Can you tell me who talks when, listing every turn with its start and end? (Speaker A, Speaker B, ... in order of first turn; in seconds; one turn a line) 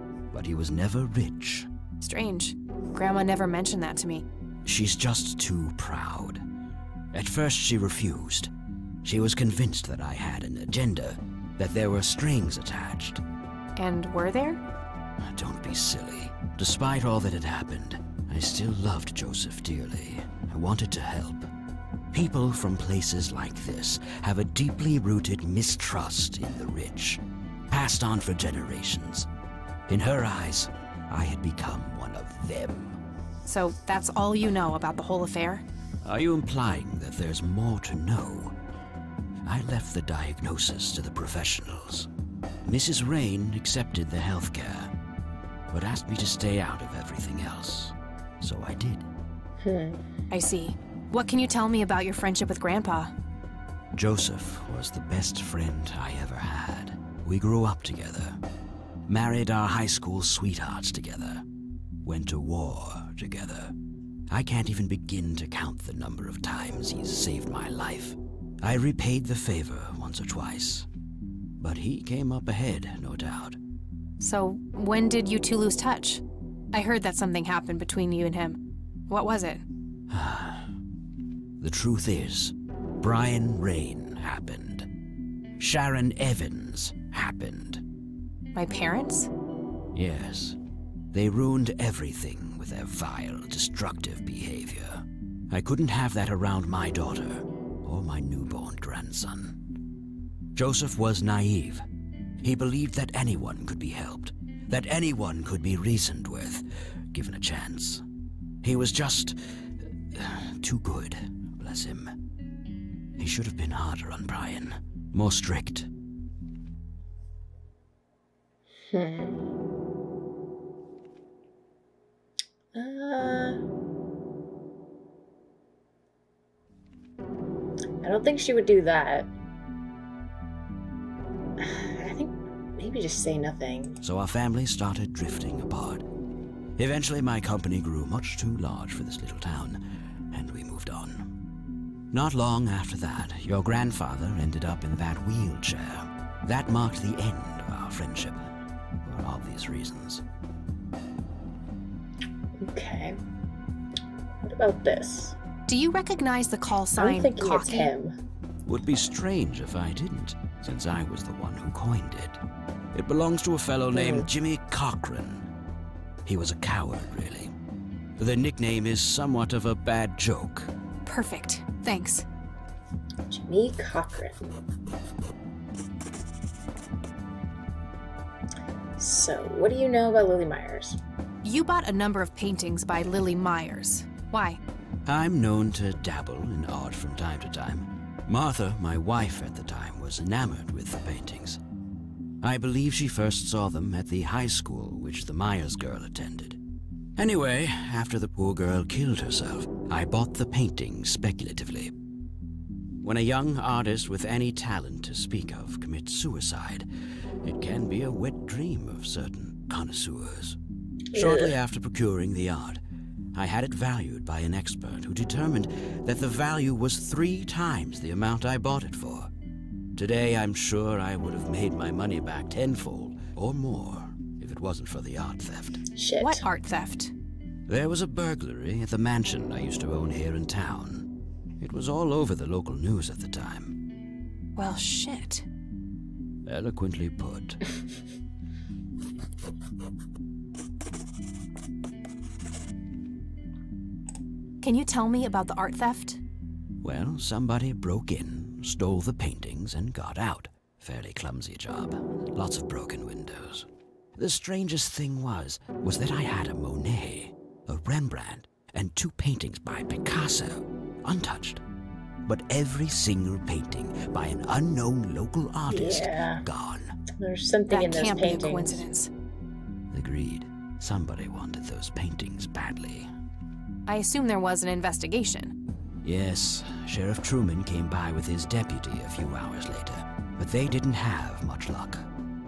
Speaker A: 0.3-1.7
Speaker B: 2.0-4.2
Speaker A: 4.6-6.4
Speaker A: 7.1-8.5
Speaker A: 9.0-13.2
Speaker B: 13.8-14.6
Speaker A: 15.2-21.5
Speaker A: 22.1-29.3
Speaker A: 29.9-33.0
Speaker B: 33.5-35.6
Speaker A: 36.0-38.5
Speaker A: 39.4-42.1
Speaker A: 42.6-44.9
Speaker A: 45.7-49.1
Speaker C: 49.6-50.0
Speaker B: 50.3-53.1
Speaker A: 53.9-58.4
Speaker A: 59.1-61.4
Speaker A: 62.0-63.7
Speaker A: 64.3-70.9
Speaker A: 71.6-73.6
Speaker B: 74.2-79.6
Speaker A: 80.1-80.7
Speaker A: 81.6-84.9
Speaker A: 85.6-87.8
Speaker B: 88.5-89.3
Speaker A: 89.9-90.6
Speaker A: 91.1-99.6
Speaker A: 100.5-101.8
Speaker A: 102.4-108.0
Speaker A: 108.6-109.4
Speaker A: 110.1-112.1
Speaker A: 113.2-115.9
Speaker C: 118.8-119.4
Speaker C: 122.7-123.6
Speaker C: 128.0-129.3
Speaker C: 131.6-134.0
Speaker A: 134.0-136.0
Speaker A: 136.8-141.3
Speaker A: 142.1-148.5
Speaker A: 149.0-150.2
Speaker C: 152.6-153.2
Speaker C: 154.4-155.4
Speaker B: 155.7-157.9
Speaker C: 156.9-158.1
Speaker A: 158.7-162.4
Speaker A: 162.9-165.5
Speaker C: 163.9-164.3
Speaker A: 166.2-167.5
Speaker A: 168.2-170.7
Speaker B: 171.0-172.2
Speaker C: 173.3-174.5
Speaker C: 179.0-181.0
Speaker B: 181.4-184.6
Speaker A: 185.1-191.6
Speaker A: 192.4-196.6
Speaker A: 197.2-201.9
Speaker A: 203.0-206.9
Speaker A: 207.4-210.6
Speaker C: 211.1-211.6
Speaker A: 211.1-212.8
Speaker A: 213.3-219.3
Speaker A: 219.9-225.8
Speaker C: 225.9-226.4
Speaker B: 226.2-227.1
Speaker A: 227.7-231.1
Speaker A: 231.6-233.8
Speaker B: 234.6-235.4
Speaker A: 236.4-237.6
Speaker B: 244.6-246.2
Speaker A: 246.8-261.6
Speaker A: 262.2-266.9
Speaker C: 265.7-266.4
Speaker C: 267.1-268.8
Speaker B: 267.7-269.1
Speaker A: 269.9-273.1
Speaker B: 273.9-275.5
Speaker A: 276.0-282.1